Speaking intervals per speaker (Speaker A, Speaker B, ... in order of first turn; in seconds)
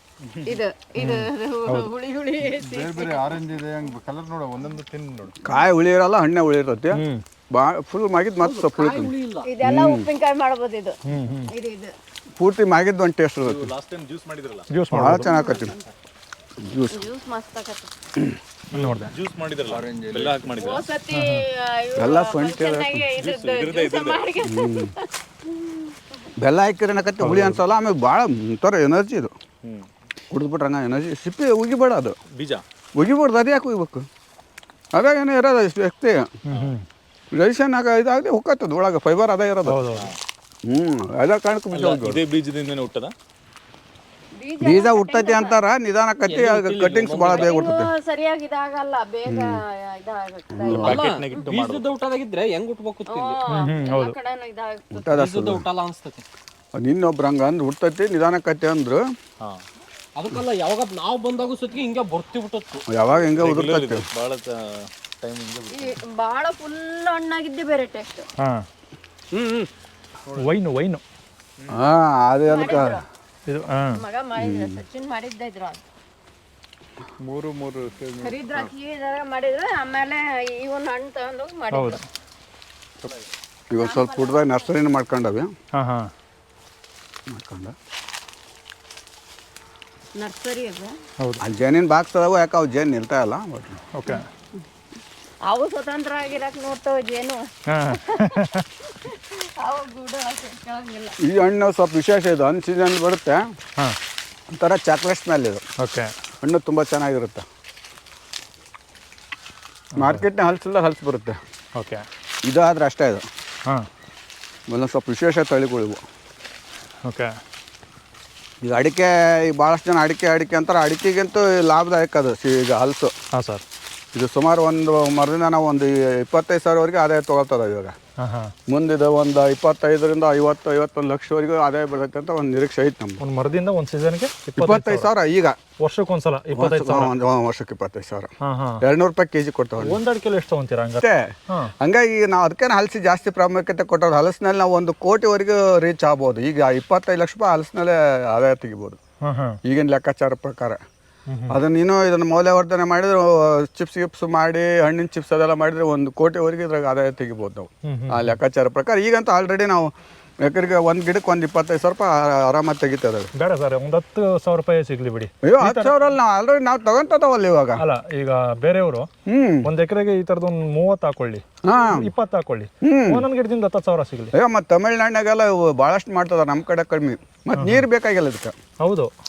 Speaker A: 0.4-3.4, 9.4-11.9, 15.2-15.8, 16.9-17.9, 20.5-25.9, 44.4-45.6, 47.2-51.5, 53.1-54.9, 65.7-68.3, 72.5-73.0, 73.9-75.8, 78.2-82.0, 83.8-84.7, 90.2-90.9, 95.4-101.2
Speaker B: 1.0-1.9, 6.9-7.2, 11.1-11.5, 14.7-15.3, 18.7-19.1, 21.1-21.4, 27.2-27.6, 36.5-36.8, 39.6-40.1, 53.5-54.1, 68.4-68.6, 70.4-71.0, 73.5-74.0, 81.7-82.0, 85.7-86.1, 93.9-94.3, 97.7-98.7, 105.8-106.1, 111.8-112.0, 117.0-117.3, 123.3-123.6, 128.2-128.5, 133.2-135.1, 135.8-137.1, 138.4-138.8, 139.8-141.7, 149.2-149.6, 151.3-151.6, 157.8-158.3, 163.3-165.9, 167.8-169.1, 169.6-174.3, 178.8-179.1
Speaker C: 2.4-5.4, 19.6-20.8, 77.2-78.7
Speaker D: 5.4-10.0, 12.4-13.7, 14.9-15.8, 16.6-17.0, 22.0-23.0, 24.4-24.9, 26.4-29.3, 30.3-32.1, 33.0-34.0, 34.9-36.3, 37.3-39.8, 40.7-42.2, 44.6-47.9, 49.3-49.6, 50.5-51.0, 55.0-55.6, 56.7-59.0, 62.9-64.0, 71.7-73.0, 74.4-74.8, 83.7-85.5, 87.3-87.7, 91.4-93.8, 101.2-103.5, 104.5-105.6, 106.4-107.5, 110.0-111.4, 112.4-113.2, 114.7-116.0, 118.6-123.1, 124.1-128.0, 128.7-133.2, 134.6-135.6, 136.5-140.0, 141.0-149.0, 149.6-150.8, 151.5-159.9, 160.4-163.3, 165.4-167.8, 169.2-169.7, 171.6-172.1, 172.8-173.2, 174.3-178.5
Speaker E: 8.4-9.5, 46.3-47.7, 50.8-53.4, 55.0-56.2, 60.1-62.8, 69.3-69.7
Speaker F: 13.4-14.7, 18.7-20.9, 23.1-24.3, 32.3-32.6, 41.7-43.1, 50.6-51.8, 63.3-66.0